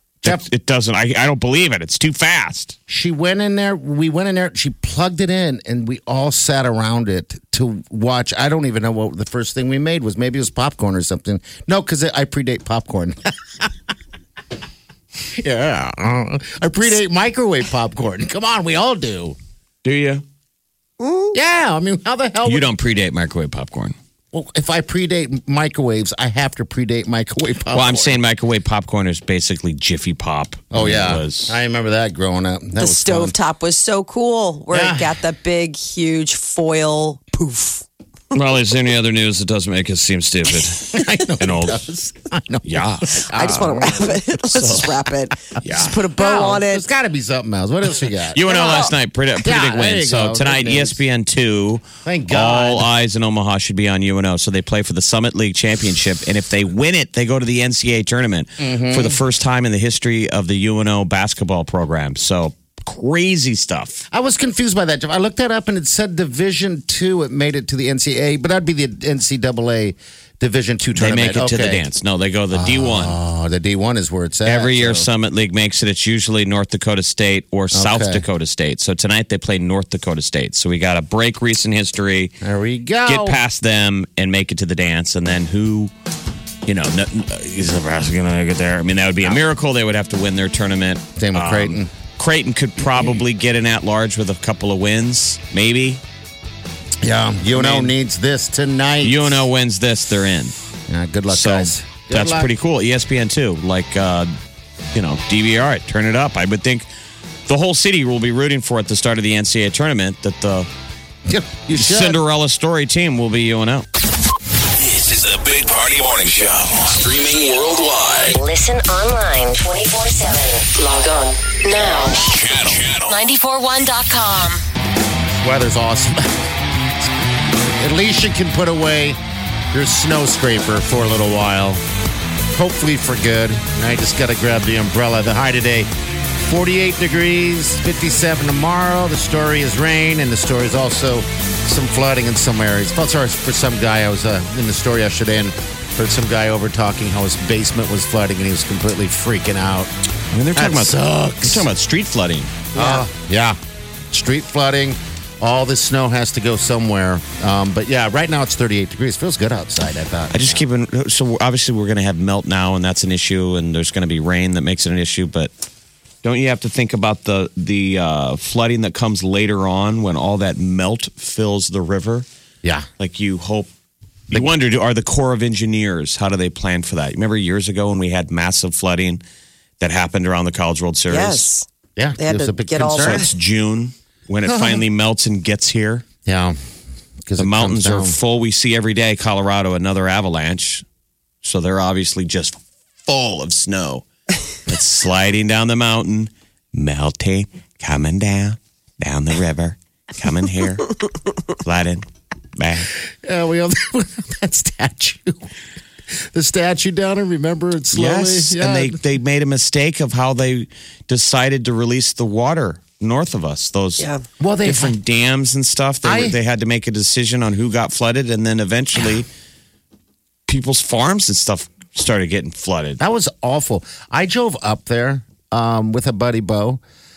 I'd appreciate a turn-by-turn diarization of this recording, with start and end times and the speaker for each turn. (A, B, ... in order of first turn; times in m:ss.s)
0:00.2-0:02.8 A
0:02.9-0:13.7 B
0:15.2-0:19.4 B
0:19.8-0:20.2 A
0:21.0-0:21.4 C
0:21.3-0:22.7 B
0:22.4-0:24.0 A
0:24.3-0:28.2 B
0:27.7-0:31.5 A
0:30.7-0:33.4 B
0:32.8-0:37.8 C
0:34.7-0:35.2 B
0:38.3-0:41.9 A
0:40.9-0:44.2 B
0:42.6-0:43.7 A
0:43.3-0:46.8 C
0:44.5-0:45.0 A
0:45.6-0:46.0 A
0:45.7-0:48.9 B
0:48.3-1:04.0 A
0:48.5-0:48.9 C
0:49.4-0:51.0 B
0:52.0-0:52.9 B
0:58.6-0:59.2 B
1:04.1-1:11.8 B
1:11.0-1:13.2 A
1:12.5-1:15.1 B
1:14.4-1:22.3 A
1:17.7-1:18.2 B
1:22.4-1:23.4 B
1:23.0-1:25.9 A
1:26.6-1:36.0 A
1:31.2-1:31.9 B
1:37.0-1:39.4 B
1:37.5-1:37.9 A
1:39.0-1:40.5 A
1:40.9-1:42.5 B
1:41.3-1:44.3 A
1:44.9-1:46.9 A
1:47.5-1:50.7 A
1:51.2-1:52.2 B
1:51.7-1:53.8 A
1:54.8-1:58.4 D
1:58.3-2:02.3 E
2:01.8-2:03.2 D
2:03.1-2:04.6 E
2:05.3-2:06.4 B
2:07.8-2:09.2 B
2:09.7-2:11.8 B
2:12.5-2:15.9 B
2:16.4-2:29.9 B
2:30.3-2:32.6 A
2:30.5-2:31.7 B
2:32.7-2:33.0 C
2:32.7-2:33.6 B
2:34.1-2:40.6 B
2:40.3-2:45.5 A
2:46.2-2:52.2 A
2:53.0-2:53.7 A
2:54.3-2:59.2 A
2:59.8-3:01.5 A
3:01.1-3:01.7 C
3:02.0-3:03.2 B
3:02.2-3:03.3 C
3:02.9-3:06.0 A
3:04.4-3:04.8 B
3:06.2-3:06.6 B
3:07.3-3:08.2 B
3:07.4-3:10.8 A
3:11.4-3:14.0 A
3:14.7-3:21.0 A
3:21.6-3:22.9 A
3:23.1-3:25.5 B
3:26.1-3:29.0 B
3:27.9-3:34.1 A
3:34.4-3:34.9 B
3:34.6-3:39.3 A
3:36.0-3:36.4 B
3:40.5-3:43.0 A
3:43.0-3:46.8 B